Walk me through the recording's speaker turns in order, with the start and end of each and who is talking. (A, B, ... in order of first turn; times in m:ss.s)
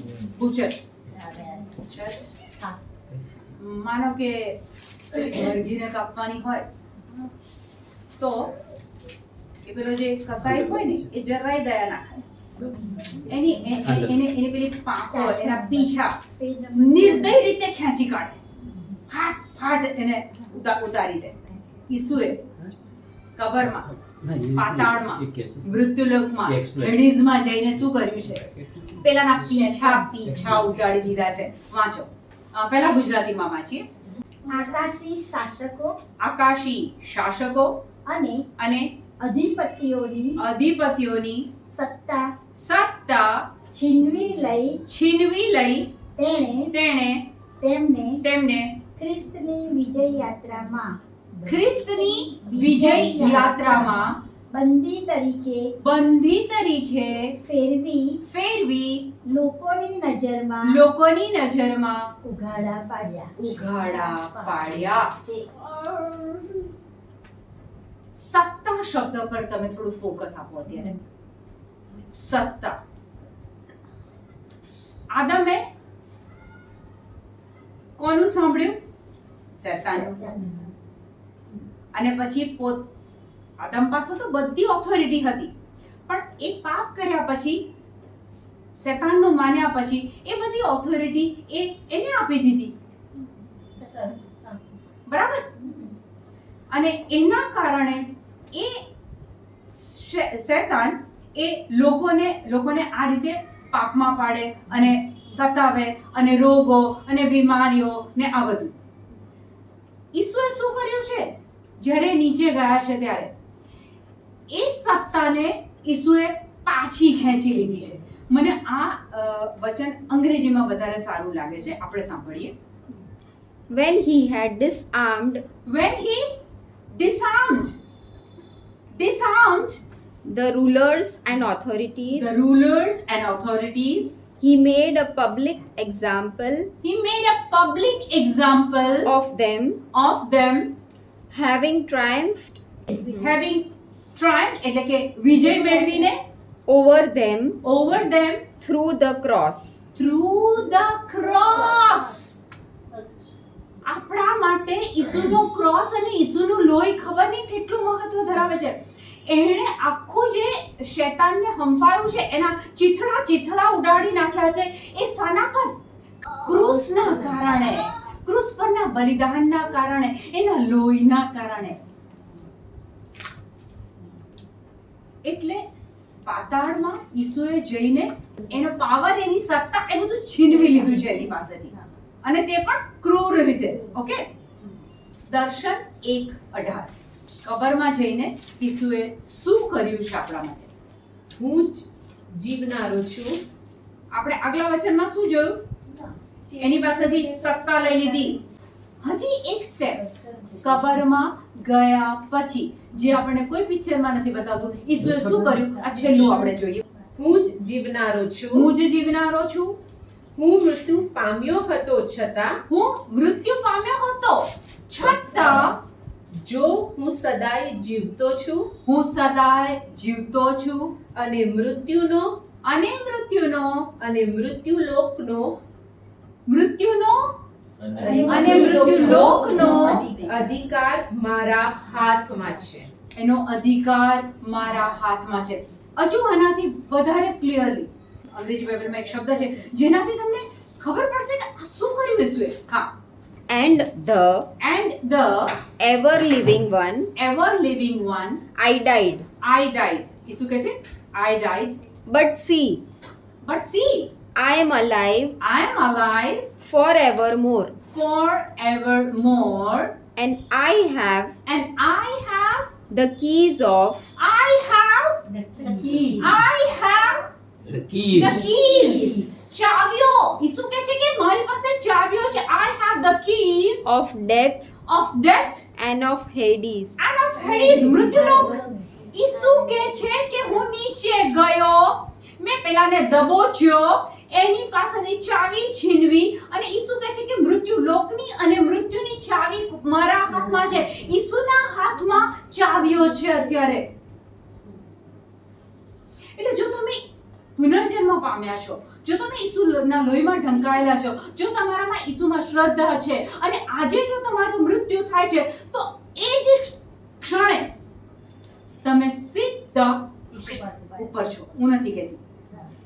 0:00.2-0:00.8 A
0:01.2-0:01.7 B
0:01.8-0:02.3 A
0:03.5-0:06.7 A
0:08.2-0:08.5 A
0:09.6-0:12.3 A
0:10.3-0:11.1 C
0:13.3-0:16.2 A
0:13.8-0:14.2 C
0:15.1-0:17.4 B
0:16.7-0:18.4 A
0:19.1-0:22.4 A
0:23.4-0:23.9 A
0:23.6-0:25.8 C
0:24.6-0:28.4 A
0:26.5-0:27.0 C
0:27.7-0:29.4 C
0:29.0-0:33.8 A
0:29.4-0:30.3 B
0:30.2-0:31.1 C
0:34.5-0:35.9 B
0:36.2-0:37.8 A
0:38.1-0:38.4 B
0:38.6-0:38.9 A
0:39.2-0:40.4 B
0:40.4-0:41.5 A
0:41.7-0:42.3 B
0:42.6-0:43.5 A
0:43.7-0:44.8 B
0:44.9-0:45.9 A
0:46.2-0:46.7 B
0:46.7-0:47.2 A
0:47.6-0:48.2 B
0:48.2-0:48.8 A
0:49.0-0:51.0 B
0:51.4-0:54.2 A
0:51.6-0:55.7 B
0:55.8-0:57.4 A
0:57.4-0:58.2 B
0:58.3-0:59.1 A
0:59.3-1:00.8 B
1:00.6-1:02.1 A
1:02.2-1:06.6 B
1:03.4-1:05.2 A
1:08.2-1:11.0 A
1:12.1-1:12.8 A
1:15.1-1:15.6 A
1:18.0-1:18.8 A
1:19.5-1:20.3 A
1:19.9-1:20.6 B
1:21.9-1:22.9 A
1:23.6-1:25.5 A
1:26.1-1:27.7 A
1:28.8-1:32.8 A
1:33.8-1:34.5 B
1:35.1-1:35.6 A
1:36.7-1:38.9 A
1:39.7-1:48.8 A
1:50.1-1:53.3 A
1:54.5-2:02.5 A
2:03.7-2:05.4 D
2:05.7-2:06.3 A
2:06.9-2:07.8 A
2:08.9-2:09.8 A
2:10.2-2:12.4 D
2:12.1-2:14.2 A
2:14.4-2:16.7 D
2:16.8-2:19.1 A
2:19.1-2:19.8 D
2:19.9-2:20.7 A
2:21.3-2:23.0 D
2:23.1-2:26.2 A
2:26.7-2:27.6 D
2:27.6-2:28.5 A
2:28.6-2:29.9 D
2:29.9-2:32.4 A
2:33.8-2:45.8 A
2:46.3-2:51.8 A
2:55.2-2:55.6 A
2:56.2-3:04.3 A
3:05.3-3:06.9 A
3:07.4-3:10.7 A
3:11.4-3:13.4 E
3:14.1-3:15.6 A
3:16.6-3:18.4 A
3:16.7-3:18.1 B
3:19.0-3:20.0 A
3:20.0-3:20.8 B
3:20.6-3:26.8 A
3:25.0-3:25.6 C
3:27.2-3:28.7 E
3:28.5-3:29.8 A
3:30.4-3:32.6 E
3:32.7-3:35.8 A
3:36.4-3:38.7 E
3:38.9-3:41.0 A
3:41.1-3:42.4 E
3:42.6-3:43.9 A
3:44.0-3:45.6 E
3:46.5-3:47.4 A
3:48.0-3:52.9 E
3:48.0-3:50.3 B
3:48.2-3:50.1 A
3:53.2-4:02.9 A
4:03.5-4:04.5 D
4:04.6-4:05.6 A
4:05.8-4:07.1 D
4:07.2-4:08.4 A
4:08.6-4:09.3 D
4:09.4-4:11.8 A
4:12.1-4:12.8 D
4:13.4-4:14.1 A
4:14.4-4:15.4 D
4:15.4-4:16.5 A
4:16.6-4:17.8 D
4:17.9-4:20.0 A
4:20.2-4:21.4 D
4:21.5-4:22.7 A
4:22.9-4:24.1 D
4:24.2-4:25.2 A
4:25.3-4:26.3 E
4:26.1-4:27.3 A
4:27.8-4:28.5 C
4:28.1-4:33.9 A
4:28.2-4:29.2 E
4:33.8-4:34.7 D
4:34.9-4:35.7 A
4:35.8-4:37.1 D
4:37.0-4:53.9 A
4:37.4-4:38.8 B
4:56.4-4:57.0 A
4:57.6-5:07.7 A
5:08.8-5:12.2 A